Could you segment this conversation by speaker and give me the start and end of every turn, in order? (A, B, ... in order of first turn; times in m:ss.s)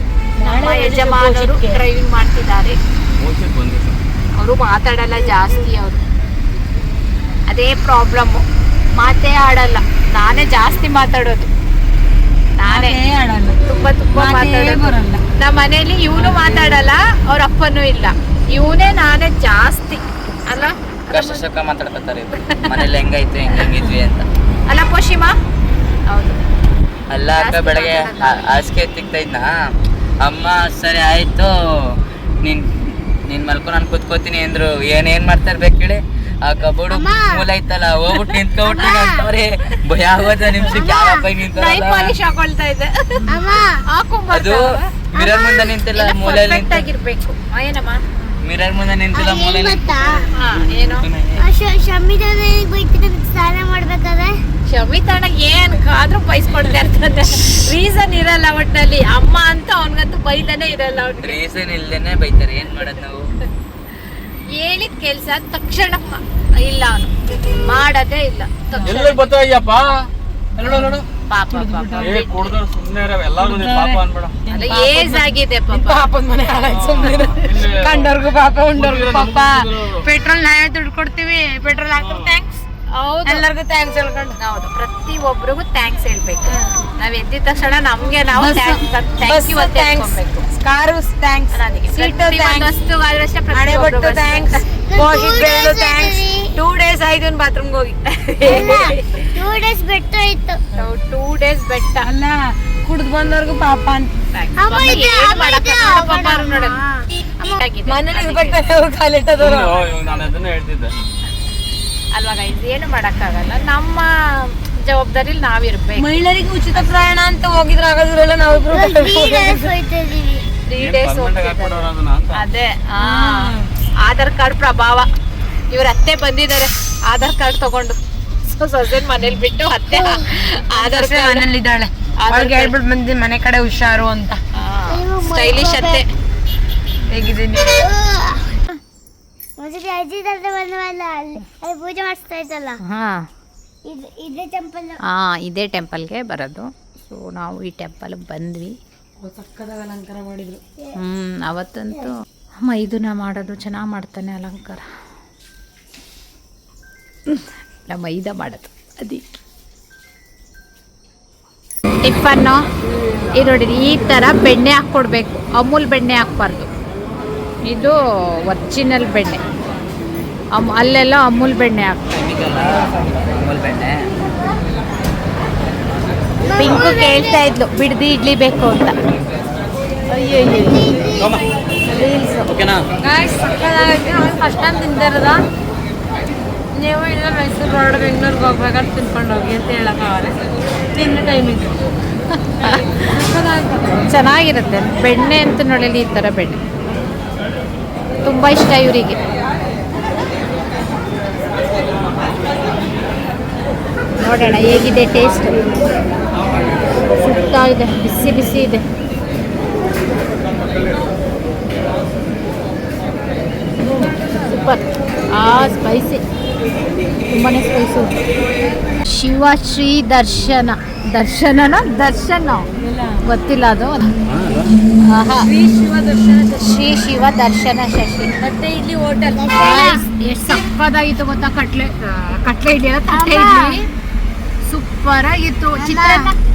0:00.4-0:02.8 A
0:00.4-0:01.8 B
0:03.2-0:04.0 C
0:04.4-0:06.0 A
0:07.5-0:08.4 A
0:09.0-0:11.5 A
0:12.6-0:13.0 A
0:12.7-0:13.6 B
0:13.6-0:21.4 A
0:14.1-0:15.2 B
0:16.2-0:16.9 B
0:21.1-0:24.2 D
0:22.5-0:22.8 A
0:24.7-0:25.4 A
0:26.1-0:26.4 A
0:27.1-0:29.5 D
0:27.3-0:28.5 A
0:30.2-0:32.7 D
0:33.3-0:42.1 D
0:36.9-0:37.4 E
0:38.5-0:39.3 E
0:40.6-0:41.2 E
0:41.5-0:43.3 A
0:43.3-0:43.8 E
0:43.9-0:48.2 A
0:44.3-0:46.8 D
0:48.4-0:51.4 D
0:49.1-0:50.2 E
0:50.3-0:51.0 A
0:51.4-0:54.3 E
0:54.7-1:01.4 A
1:01.2-1:03.2 D
1:04.5-1:07.1 A
1:07.6-1:09.2 A
1:08.8-1:11.1 C
1:10.6-1:11.0 B
1:11.3-1:12.6 A
1:11.5-1:12.2 B
1:12.0-1:14.4 C
1:13.4-1:22.6 B
1:14.5-1:16.0 A
1:16.7-1:18.2 C
1:17.0-1:17.3 A
1:18.7-1:20.0 C
1:22.0-1:22.4 C
1:22.9-1:23.4 A
1:23.2-1:24.4 B
1:24.4-1:30.4 A
1:28.3-1:32.7 B
1:31.5-1:34.6 A
1:33.5-1:39.0 B
1:34.7-1:36.4 E
1:38.4-1:39.0 A
1:38.5-1:40.6 E
1:40.7-1:42.1 A
1:42.0-1:44.1 B
1:44.3-1:48.6 A
1:44.6-1:46.6 E
1:46.5-1:47.0 B
1:47.9-1:49.8 B
1:49.4-1:50.9 C
1:52.1-1:56.2 A
1:56.0-1:59.7 B
1:56.7-1:57.0 A
1:58.6-2:00.5 E
2:00.6-2:05.1 A
2:00.8-2:02.4 C
2:03.0-2:03.7 B
2:05.7-2:11.4 A
2:09.9-2:10.3 E
2:10.7-2:14.4 B
2:12.2-2:12.7 A
2:14.5-2:16.1 A
2:14.9-2:16.0 E
2:17.1-2:17.9 B
2:17.8-2:18.6 E
2:19.6-2:22.8 E
2:22.8-2:23.2 A
2:23.8-2:25.0 E
2:25.0-2:28.7 A
2:29.2-2:30.6 B
2:31.0-2:34.8 A
2:37.3-2:39.4 A
2:42.0-2:42.6 A
2:43.3-2:46.7 A
2:47.7-2:49.4 A
2:50.5-2:52.2 A
2:52.1-2:53.9 D
2:56.5-2:57.4 E
2:56.6-2:58.9 A
3:00.1-3:00.9 B
3:00.4-3:01.4 E
3:01.2-3:01.4 C
3:01.9-3:02.5 A
3:02.5-3:02.8 C
3:03.0-3:05.4 B
3:06.8-3:10.3 B
3:10.9-3:11.8 B
3:12.6-3:13.0 A
3:13.0-3:14.1 B
3:14.0-3:16.6 A
3:18.2-3:19.2 A
3:24.2-3:25.6 A
3:27.2-3:28.8 A
3:33.8-3:36.2 A
3:37.3-3:38.2 A
3:39.0-3:42.6 A
3:42.8-3:43.2 B
3:43.2-3:44.1 A
3:44.2-3:44.7 C
3:45.1-3:45.5 A
3:45.4-3:46.8 B
3:46.6-3:48.3 A
3:48.4-3:49.5 B
3:49.3-3:50.0 E
3:49.5-3:53.9 A
3:53.2-3:53.8 E
3:54.7-3:56.4 A
3:55.8-3:56.3 E